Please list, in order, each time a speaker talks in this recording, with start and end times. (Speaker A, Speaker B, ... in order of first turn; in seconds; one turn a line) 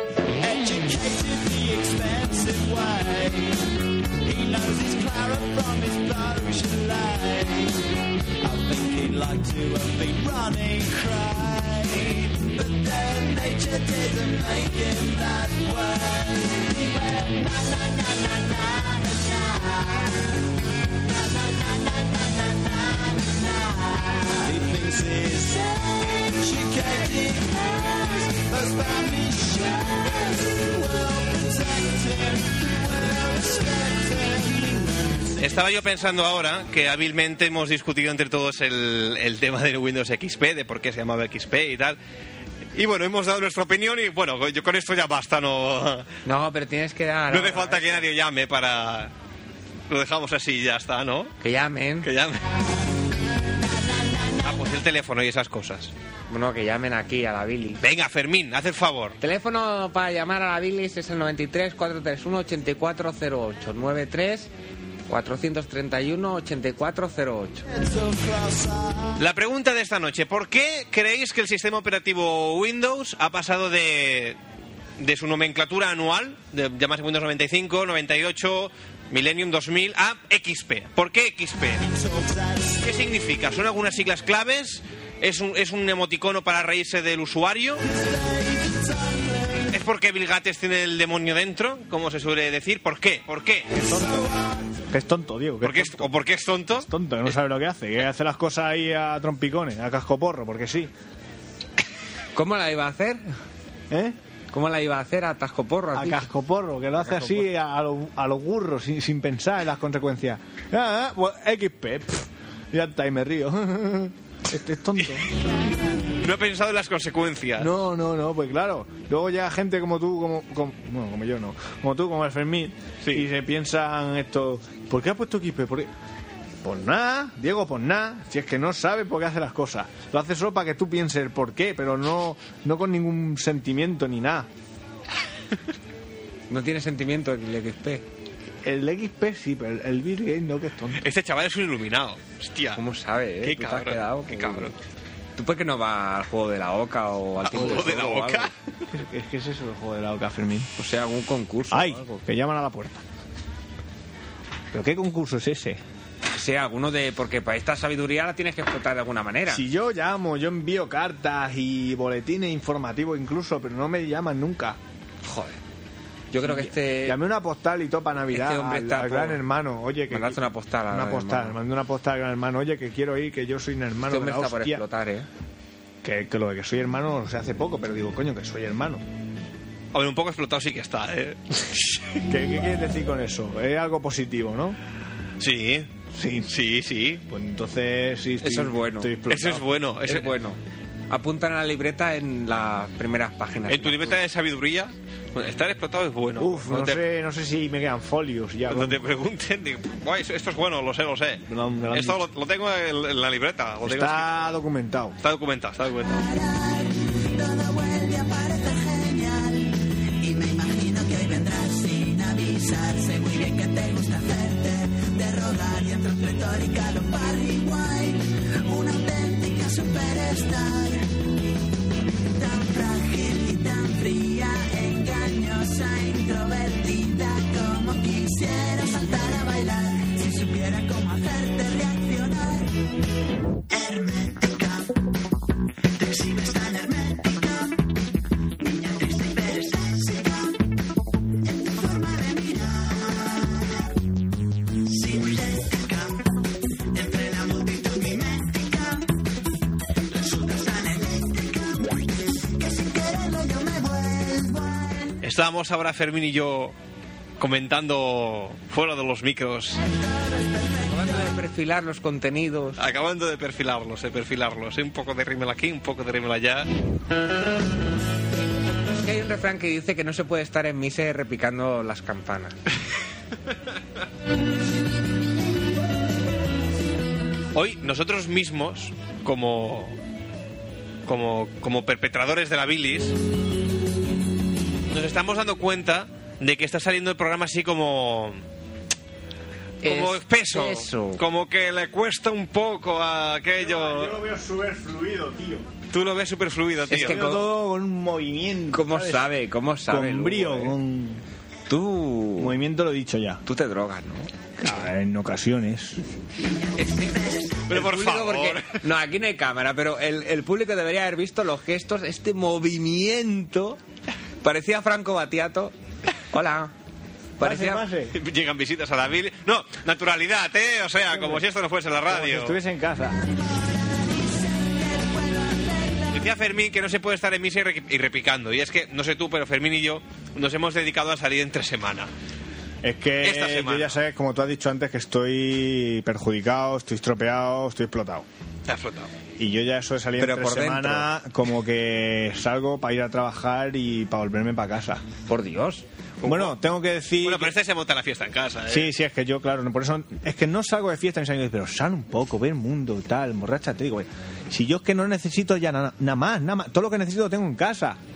Speaker A: 0.4-3.6
Speaker A: 4.2-7.8
Speaker A: 8.4-20.3
Speaker A: 21.0-35.5
Speaker B: 35.4-42.0
Speaker B: 42.7-46.1
Speaker C: 46.2-48.1
Speaker B: 47.3-49.1
Speaker B: 49.9-51.3
Speaker C: 51.4-52.1
Speaker B: 52.0-52.4
Speaker B: 54.4-55.9
Speaker C: 56.3-57.8
Speaker B: 57.8-59.2
Speaker C: 59.2-64.5
Speaker C: 65.1-67.7
Speaker A: 67.7-69.2
Speaker B: 69.2-74.4
Speaker B: 75.0-81.9
Speaker A: 81.9-82.8
Speaker B: 82.8-87.8
Speaker A: 87.8-89.7
Speaker B: 89.7-93.7
Speaker D: 93.8-94.3
Speaker A: 93.9-94.4
Speaker D: 94.9-96.1
Speaker B: 95.6-96.9
Speaker D: 96.7-100.9
Speaker C: 102.3-103.2
Speaker D: 103.9-104.2
Speaker C: 104.5-106.2
Speaker D: 105.9-115.3
Speaker C: 107.0-107.4
Speaker B: 116.2-117.7
Speaker D: 117.6-125.9
Speaker D: 126.6-134.5
Speaker C: 136.5-138.0
Speaker D: 138.6-141.0
Speaker B: 141.0-142.8
Speaker C: 142.7-144.7
Speaker B: 143.4-144.7
Speaker C: 145.3-148.5
Speaker B: 147.4-148.6
Speaker D: 148.9-150.7
Speaker C: 150.8-152.2
Speaker D: 151.7-153.0
Speaker D: 154.7-155.8
Speaker C: 156.3-159.6
Speaker D: 159.5-164.8
Speaker C: 165.2-165.6
Speaker C: 166.3-167.2
Speaker D: 166.4-174.8
Speaker C: 168.3-169.4
Speaker C: 170.1-171.6
Speaker C: 174.1-175.3
Speaker D: 176.0-179.0
Speaker B: 179.9-182.2
Speaker D: 182.3-184.8
Speaker B: 185.4-185.9
Speaker D: 186.1-186.5
Speaker B: 186.4-187.2
Speaker D: 187.2-189.7
Speaker C: 188.4-189.1
Speaker B: 189.3-190.3
Speaker C: 190.1-190.6
Speaker C: 191.1-194.2
Speaker B: 193.7-197.0
Speaker D: 196.4-199.0
Speaker B: 198.7-204.6
Speaker D: 201.5-202.2
Speaker D: 203.8-205.2
Speaker B: 205.2-206.2
Speaker E: 206.0-221.1
Speaker E: 222.3-232.8
Speaker E: 233.7-235.0
Speaker E: 236.0-237.8
Speaker E: 238.6-240.6
Speaker E: 241.4-243.8
Speaker E: 244.8-246.3
Speaker E: 246.9-249.1
Speaker E: 250.1-255.1
Speaker B: 255.2-256.7
Speaker B: 257.4-259.8
Speaker C: 260.9-262.8
Speaker B: 262.8-266.7
Speaker C: 268.9-272.5
Speaker B: 277.5-280.0
Speaker B: 281.1-283.1
Speaker B: 284.9-288.4
Speaker C: 289.8-291.2
Speaker B: 289.8-294.2
Speaker D: 293.6-295.7
Speaker B: 295.9-297.3
Speaker C: 296.9-297.4
Speaker D: 296.9-299.4
Speaker C: 298.7-300.8
Speaker D: 299.9-301.2
Speaker C: 301.7-302.5
Speaker D: 302.4-303.4
Speaker C: 303.4-304.3
Speaker D: 304.6-306.0
Speaker C: 306.8-313.8
Speaker E: 307.0-307.6
Speaker B: 307.7-308.8
Speaker C: 314.4-315.7
Speaker C: 316.3-316.7
Speaker C: 317.4-317.8
Speaker D: 317.4-318.2
Speaker B: 318.1-322.6
Speaker D: 321.1-321.4
Speaker D: 322.1-323.2
Speaker E: 323.5-326.1
Speaker B: 326.1-332.1
Speaker D: 332.8-338.2
Speaker B: 333.2-334.0
Speaker B: 338.6-339.1
Speaker D: 339.4-345.0
Speaker C: 340.2-341.1
Speaker C: 345.3-345.8
Speaker B: 346.2-346.5
Speaker D: 346.2-347.5
Speaker B: 347.2-348.9
Speaker D: 348.7-358.0